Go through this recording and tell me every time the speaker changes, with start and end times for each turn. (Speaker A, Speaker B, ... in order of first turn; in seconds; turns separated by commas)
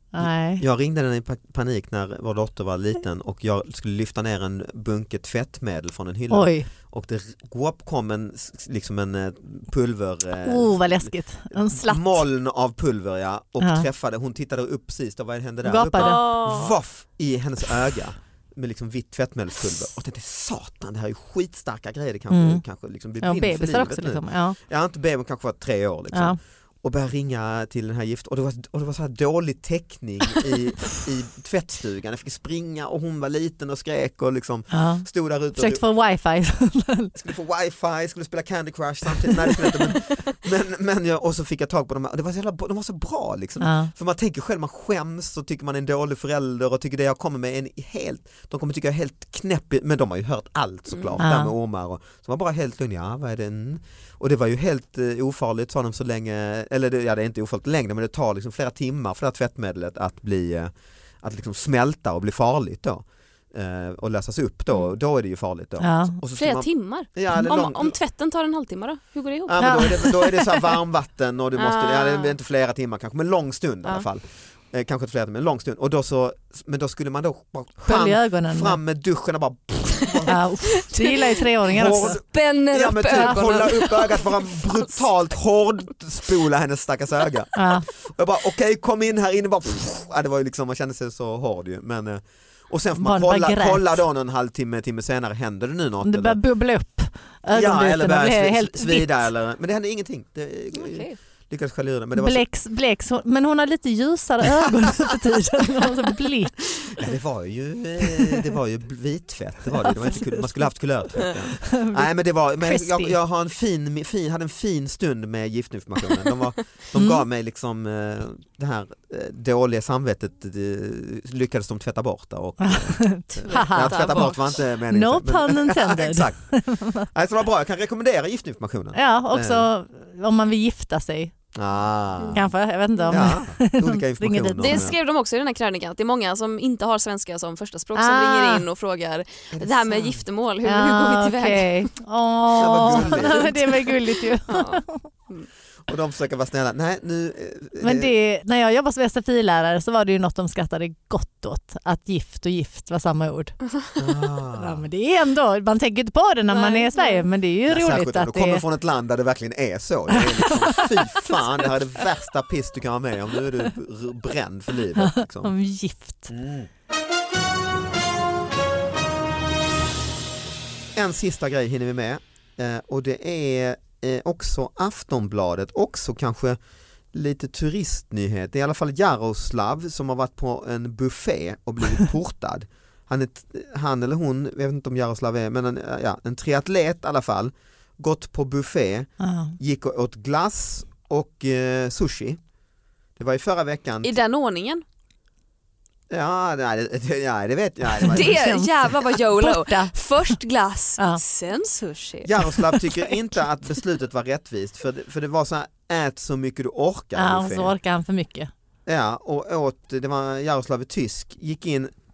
Speaker A: 0.1-0.6, Speaker B: 0.2-35.8, Speaker A: 6.3-6.7, Speaker A: 10.4-12.2, Speaker A: 13.6-13.9, Speaker A: 15.7-16.2, Speaker C: 16.0-16.8, Speaker A: 22.3-22.6, Speaker A: 23.2-24.6, Speaker A: 26.1-26.4, Speaker A: 34.7-37.1, Speaker B: 37.1-68.0, Speaker A: 43.6-43.9, Speaker C: 50.9-51.2, Speaker A: 51.2-51.5, Speaker A: 65.8-66.2, Speaker C: 66.4-70.2, Speaker B: 69.5-80.4, Speaker A: 69.6-70.6, Speaker C: 71.6-72.3, Speaker A: 77.8-78.8, Speaker A: 80.3-82.2, Speaker C: 80.8-81.4, Speaker B: 81.7-96.4, Speaker C: 81.9-85.0, Speaker A: 87.6-87.9, Speaker A: 93.0-94.0, Speaker A: 96.0-99.2, Speaker B: 97.5-102.5, Speaker C: 100.7-101.2, Speaker A: 102.2-106.6, Speaker B: 106.9-129.7, Speaker A: 111.7-113.2, Speaker A: 117.0-117.2, Speaker A: 122.6-127.1, Speaker C: 123.5-124.6, Speaker A: 128.9-131.3, Speaker B: 131.5-132.5, Speaker C: 132.2-132.4, Speaker A: 132.3-134.9, Speaker C: 132.9-133.3, Speaker B: 133.1-135.0, Speaker C: 134.6-141.9, Speaker A: 138.0-138.7, Speaker B: 139.5-140.2, Speaker A: 140.6-145.1, Speaker B: 142.6-143.8, Speaker C: 142.9-143.6, Speaker C: 144.5-145.5, Speaker B: 145.9-148.1, Speaker A: 147.8-153.6, Speaker B: 154.0-154.8, Speaker A: 154.6-158.6, Speaker C: 156.5-157.3, Speaker B: 157.7-165.5, Speaker A: 160.2-161.3, Speaker A: 165.0-166.3, Speaker B: 166.3-166.7, Speaker B: 170.9-176.6, Speaker B: 177.1-192.4, Speaker A: 189.2-189.6, Speaker B: 193.2-194.2, Speaker C: 194.0-194.8, Speaker B: 196.1-198.4, Speaker A: 198.0-200.4, Speaker C: 198.0-202.5, Speaker B: 202.2-207.8, Speaker A: 202.6-203.1, Speaker A: 207.2-208.5, Speaker B: 208.9-211.9